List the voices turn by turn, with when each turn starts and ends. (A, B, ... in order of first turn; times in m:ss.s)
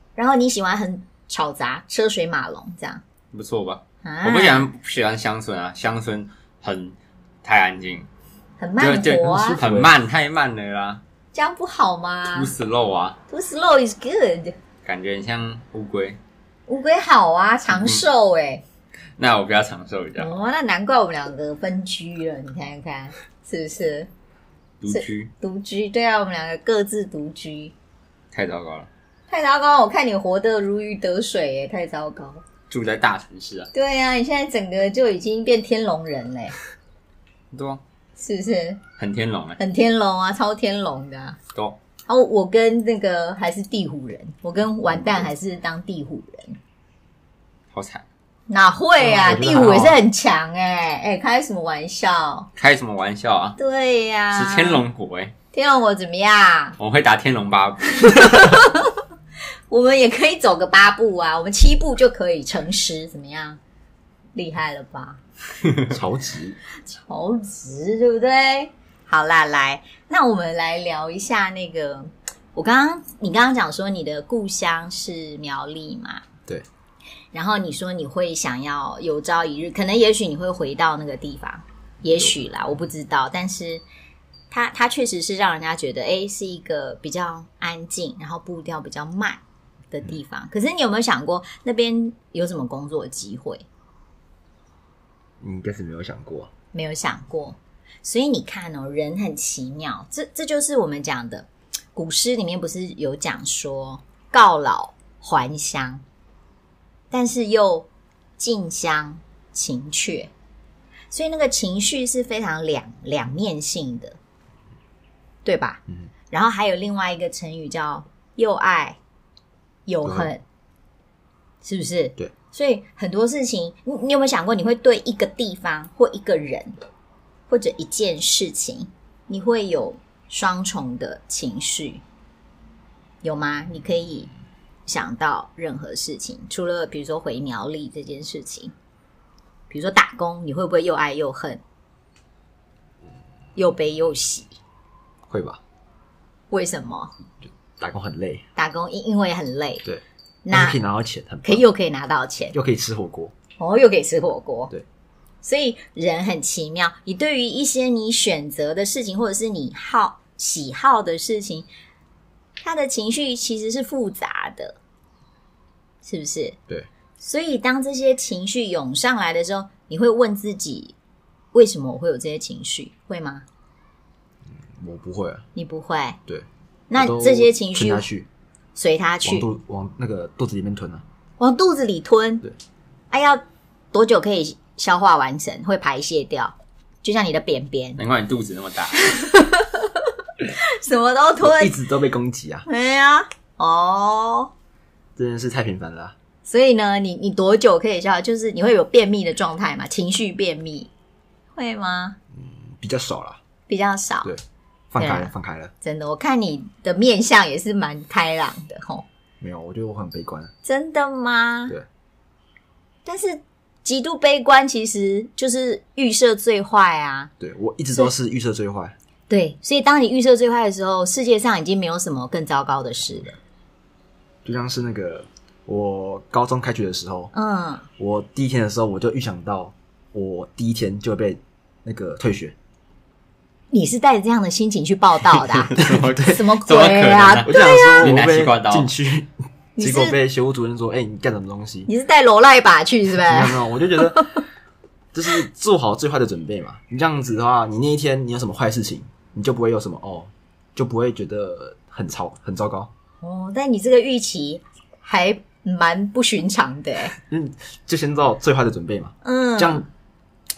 0:00.2-0:03.0 A
0:03.3-0:08.1 B
0:04.0-0:04.7 A
0:08.6-0:09.6 A
0:08.8-0:11.0 B
0:09.3-0:09.9 C
0:11.3-0:12.5 A
0:12.3-0:13.2 B
0:13.3-0:14.5 A
0:14.8-0:16.2 B
0:16.7-0:18.6 A
0:17.7-0:18.0 B
0:19.2-0:20.3 B
0:20.2-0:24.1 A
0:24.8-0:25.3 B
0:24.9-0:27.7 A
0:28.3-0:28.9 B
0:29.3-0:32.4 A
0:32.7-0:33.7 B
0:33.7-0:36.5 A
0:37.5-0:37.8 B
0:38.2-0:38.8 A
0:39.0-0:39.6 B
0:39.6-0:41.4 A
0:42.1-0:46.6 A
0:47.7-0:48.0 B
0:48.5-0:52.5 A
0:49.0-0:50.0 C
0:52.6-0:53.6 B
0:53.6-0:54.8 A
0:54.3-0:55.3 B
0:55.5-0:56.8 A
0:56.8-0:58.4 B
0:58.0-0:59.0 A
0:59.7-1:03.6 A
1:04.3-1:05.2 A
1:05.9-1:06.6 C
1:06.9-1:16.2 A
1:17.3-1:23.8 A
1:24.5-1:33.6 A
1:35.4-1:36.5 C
1:36.7-1:46.0 A
1:47.1-1:47.9 A
1:48.4-1:50.3 A
1:51.1-1:54.2 A
1:55.4-1:59.0 A
1:59.9-2:00.4 A
2:00.0-2:00.3 C
2:01.6-2:06.8 A
2:07.5-2:12.0 A
2:13.2-2:14.3 A
2:14.9-2:18.7 A
2:19.7-2:21.6 A
2:23.6-2:24.5 A
2:25.3-2:25.6 C
2:26.5-2:27.1 A
2:27.8-2:28.4 C
2:28.6-2:29.8 A
2:29.8-2:31.6 C
2:30.4-2:30.8 A
2:31.4-2:32.5 A
2:32.5-2:33.3 C
2:33.6-2:34.7 A
2:35.4-2:41.7 A
2:42.6-2:44.8 A
2:46.0-2:46.6 A
2:47.2-2:50.9 A
2:51.5-2:53.4 A
2:54.7-2:55.4 C
2:55.5-2:56.2 A
2:56.3-2:58.3 C
2:56.9-2:58.0 A
2:58.8-2:59.5 A
2:59.2-3:01.0 C
3:01.4-3:02.4 A
3:03.1-3:03.4 A
3:03.9-3:08.0 A
3:08.0-3:09.1 B
3:09.0-3:11.8 A
3:11.4-3:12.7 C
3:12.7-3:14.5 A
3:15.2-3:16.1 C
3:16.5-3:20.9 A
3:21.5-3:22.2 A
3:22.3-3:23.4 C
3:23.7-3:24.3 A
3:24.2-3:25.7 C
3:25.0-3:25.3 A
3:25.8-3:29.0 A
3:29.4-3:30.5 C
3:30.6-3:31.8 A
3:33.0-3:37.3 A
3:37.4-3:39.0 C
3:39.3-3:43.4 A
3:44.4-3:47.3 C
3:47.3-3:47.8 A
3:48.0-3:52.5 C
3:53.7-3:58.2 A
3:55.5-3:58.9 B
3:55.8-3:56.4 C
3:57.4-4:01.9 C
3:59.8-4:00.2 A
4:01.9-4:04.4 A
4:03.2-4:04.3 C
4:05.1-4:12.9 C
4:13.2-4:17.1 A
4:17.2-4:19.9 C
4:19.2-4:19.8 A